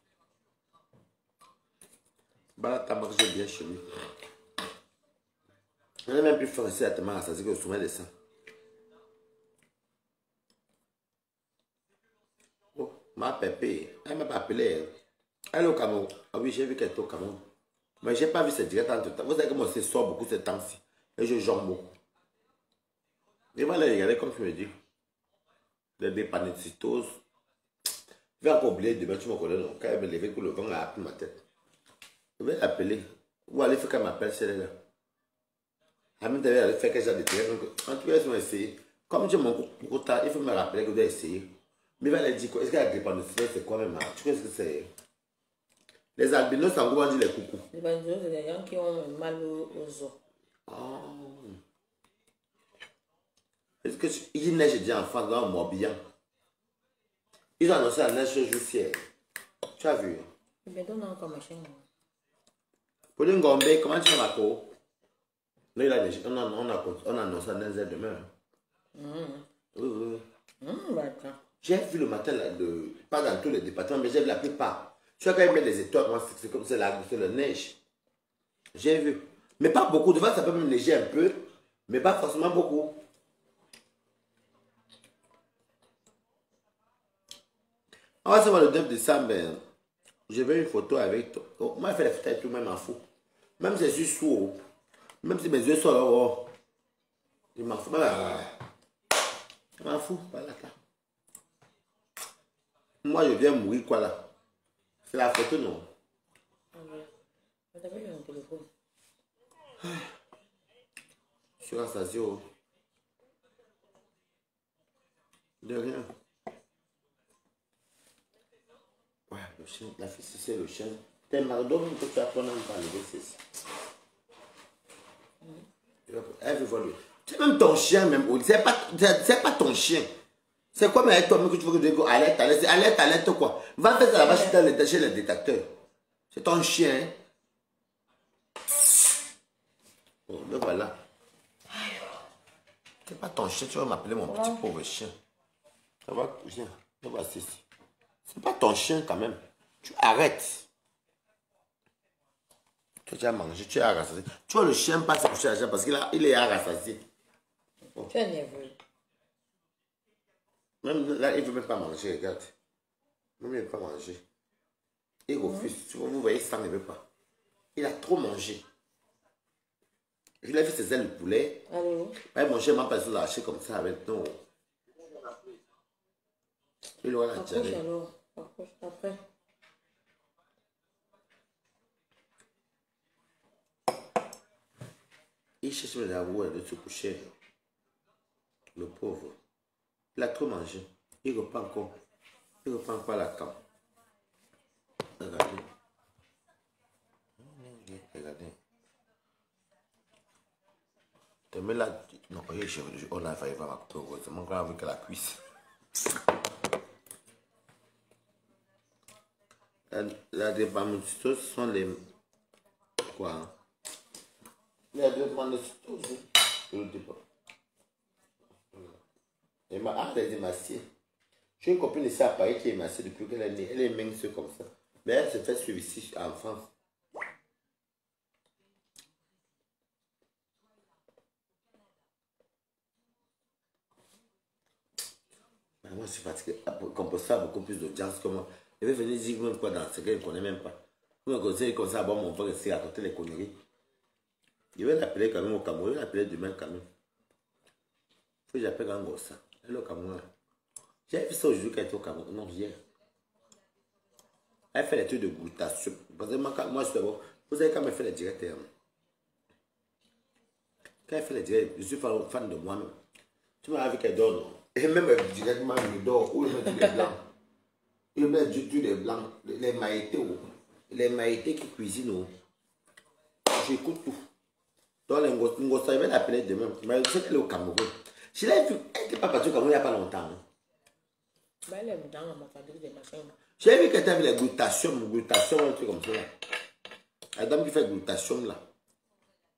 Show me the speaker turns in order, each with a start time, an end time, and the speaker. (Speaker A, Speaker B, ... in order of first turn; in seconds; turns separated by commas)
Speaker A: 2.6-3.9, Speaker A: 6.1-8.1, Speaker A: 12.8-15.0, Speaker A: 15.5-17.4, Speaker A: 18.0-22.0, Speaker A: 23.5-24.8, Speaker A: 26.0-27.2, Speaker A: 28.4-31.4, Speaker A: 32.4-34.8, Speaker A: 36.2-44.9, Speaker A: 46.1-47.6, Speaker B: 47.7-50.2, Speaker A: 50.7-51.6, Speaker A: 53.8-56.0, Speaker A: 57.6-59.0, Speaker A: 59.8-60.3, Speaker B: 60.6-61.9, Speaker A: 63.2-64.7, Speaker A: 65.8-68.3, Speaker B: 69.0-69.5, Speaker A: 69.8-70.3, Speaker B: 70.6-71.4, Speaker A: 71.6-77.8, Speaker A: 78.8-83.0, Speaker A: 88.2-89.6, Speaker A: 90.3-93.0, Speaker A: 93.6-94.6, Speaker A: 95.2-96.5, Speaker A: 97.5-98.5, Speaker A: 99.8-100.8, Speaker A: 103.0-104.3, Speaker A: 105.0-105.9, Speaker B: 106.7-107.1, Speaker B: 107.7-108.7, Speaker A: 109.8-110.1, Speaker A: 111.6-112.5, Speaker A: 115.6-116.1, Speaker A: 119.3-123.4, Speaker A: 126.1-130.1, Speaker A: 130.7-135.7, Speaker B: 134.2-134.6, Speaker A: 136.3-137.2, Speaker A: 140.3-141.0, Speaker B: 141.7-142.1, Speaker A: 143.1-145.1, Speaker B: 144.2-144.6, Speaker A: 146.1-147.6, Speaker A: 148.2-150.7, Speaker A: 153.1-157.0, Speaker B: 158.0-158.8, Speaker A: 160.8-162.5, Speaker A: 163.4-164.2, Speaker A: 165.3-167.0, Speaker B: 165.4-165.7, Speaker A: 167.8-168.7, Speaker A: 170.4-171.7, Speaker B: 171.7-172.2, Speaker A: 172.2-174.4, Speaker A: 177.0-177.8, Speaker B: 177.3-179.2, Speaker A: 185.6-187.3, Speaker A: 188.8-189.4, Speaker A: 190.2-192.0, Speaker A: 192.6-193.6, Speaker A: 195.2-195.7, Speaker A: 197.4-198.6, Speaker A: 201.5-205.4, Speaker A: 209.9-212.1, Speaker A: 213.0-213.6, Speaker A: 214.9-217.2, Speaker A: 219.7-220.8, Speaker A: 221.6-226.7, Speaker A: 235.8-243.6, Speaker A: 244.8-246.9, Speaker A: 248.5-250.3, Speaker A: 251.1-252.8, Speaker A: 254.7-258.7, Speaker A: 261.1-263.0, Speaker A: 263.6-267.2, Speaker A: 268.1-272.3, Speaker A: 273.5-274.2, Speaker A: 275.1-280.4, Speaker B: 281.7-283.4, Speaker A: 283.6-286.3, Speaker A: 287.4-288.6